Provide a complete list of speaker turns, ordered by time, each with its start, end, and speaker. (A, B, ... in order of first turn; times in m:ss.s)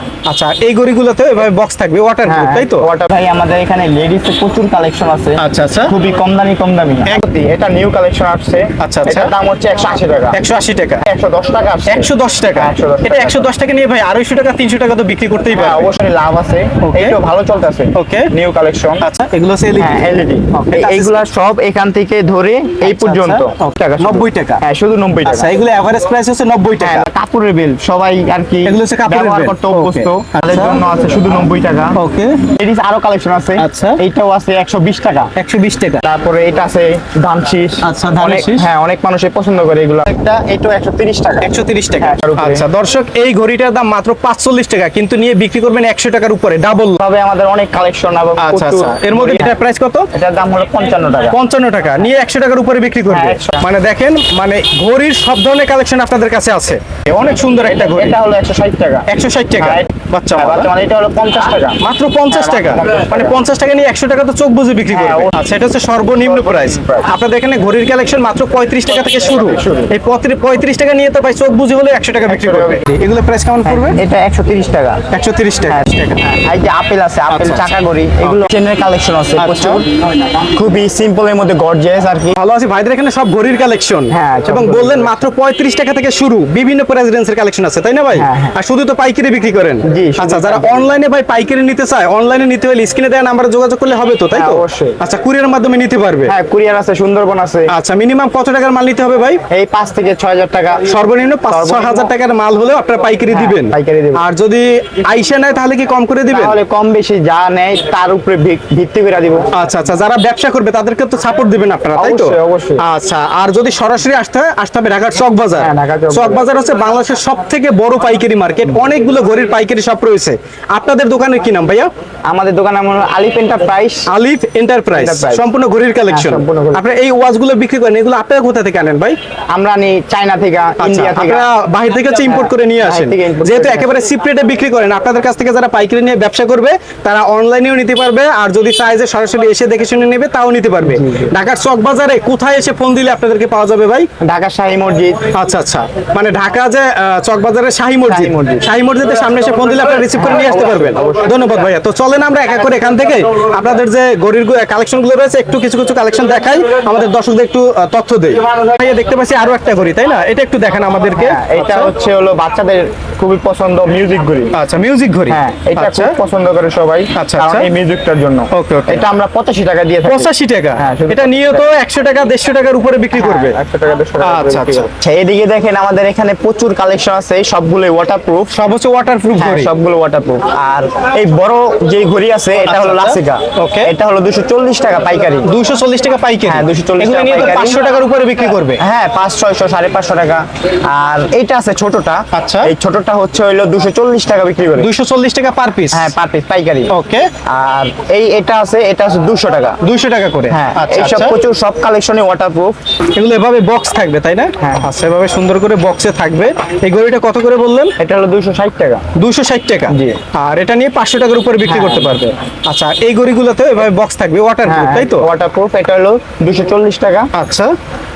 0:00.3-0:02.9 A
0:02.3-0:10.4 B
0:05.4-0:05.9 A
0:08.8-0:09.3 A
0:10.3-0:11.0 A
0:11.0-0:13.5 B
0:11.9-0:15.9 A
0:15.5-0:19.0 B
0:16.8-0:17.2 A
0:17.9-0:18.3 A
0:19.0-0:20.0 A
0:19.8-0:25.5 B
0:20.5-0:21.2 A
0:22.8-0:24.6 A
0:25.2-0:27.1 A
0:26.8-0:32.0 B
0:28.6-0:30.8 A
0:32.0-0:32.5 A
0:32.6-0:35.3 B
0:33.6-0:34.0 A
0:35.4-0:36.0 A
0:36.0-0:42.6 B
0:37.8-0:38.7 A
0:41.4-0:47.0 A
0:47.0-0:49.6 B
0:48.4-0:50.1 A
0:50.1-0:51.4 B
0:51.3-0:58.2 A
0:53.1-0:53.7 B
0:57.6-1:03.4 B
0:59.1-1:00.7 A
1:01.8-1:14.0 A
1:04.9-1:05.3 B
1:06.1-1:07.1 B
1:09.3-1:09.9 B
1:12.3-1:12.8 B
1:13.6-1:15.0 B
1:15.1-1:16.2 A
1:15.7-1:22.4 B
1:17.3-1:18.5 A
1:19.4-1:19.8 A
1:22.4-1:36.3 A
1:24.1-1:25.2 B
1:28.2-1:28.6 B
1:29.8-1:30.9 B
1:34.3-1:35.0 B
1:36.3-1:37.7 B
1:37.7-1:39.4 A
1:39.5-1:42.1 B
1:40.9-1:46.6 A
1:43.3-1:44.2 B
1:46.3-1:49.5 B
1:49.5-2:01.9 A
1:52.0-1:52.8 B
1:55.6-1:56.5 B
2:02.3-2:04.1 B
2:04.1-2:09.2 A
2:04.9-2:05.5 B
2:06.1-2:06.8 B
2:09.5-2:11.5 B
2:10.8-2:24.1 A
2:12.3-2:14.0 B
2:24.2-2:25.2 B
2:25.3-2:41.9 A
2:28.1-2:28.7 B
2:30.1-2:31.6 B
2:41.1-2:44.5 B
2:44.5-2:46.2 A
2:45.3-2:51.7 B
2:47.1-2:47.7 A
2:48.5-2:49.1 A
2:50.0-2:53.6 A
2:53.1-2:58.6 B
2:54.2-2:54.9 A
2:58.5-2:59.7 A
2:59.4-3:05.5 B
3:02.6-3:03.9 A
3:05.4-3:08.8 A
3:06.5-3:07.8 B
3:08.8-3:14.9 B
3:12.3-3:12.7 A
3:14.8-3:16.1 A
3:15.9-3:16.9 B
3:16.9-3:17.3 A
3:17.5-3:19.8 B
3:19.8-3:21.4 A
3:20.5-3:22.8 B
3:23.1-3:28.0 A
3:24.6-3:24.9 B
3:28.0-3:29.0 B
3:29.2-3:35.3 A
3:29.9-3:30.2 B
3:31.6-3:32.2 B
3:34.6-3:37.3 B
3:37.3-3:37.7 A